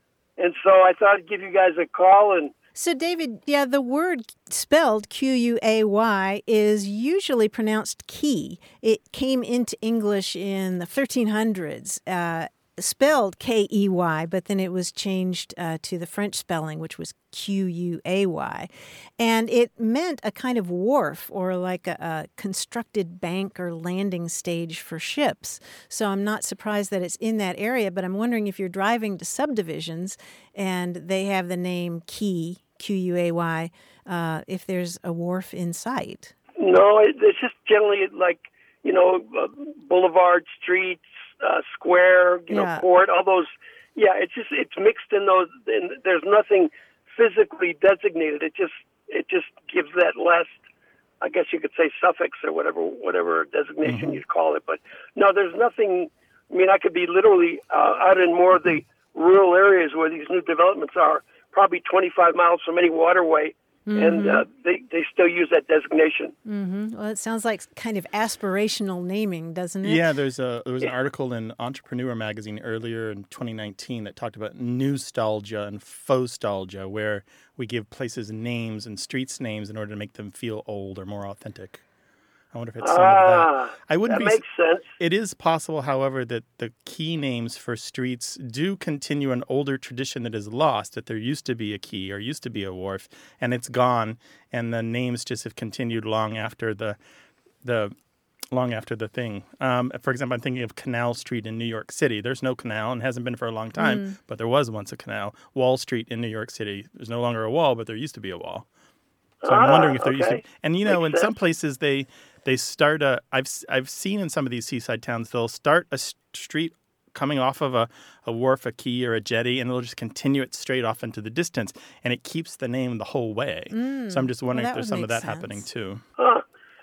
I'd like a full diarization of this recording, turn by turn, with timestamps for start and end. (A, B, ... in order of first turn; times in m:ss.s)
0:00.4-0:02.5 A
0:02.7-0:36.3 B
0:36.6-0:50.6 A
0:42.5-0:42.8 B
0:51.2-1:06.3 A
0:53.8-0:54.2 C
1:03.9-1:04.4 B
1:06.4-1:10.1 B
1:09.8-1:21.8 C
1:22.5-1:24.4 C
1:22.8-1:24.9 A
1:25.0-1:37.0 C
1:37.6-1:37.9 C
1:38.5-1:48.6 C
1:43.8-1:44.2 B
1:49.4-1:51.3 A
1:49.4-2:06.0 C
2:03.7-2:05.7 B
2:06.2-2:06.4 A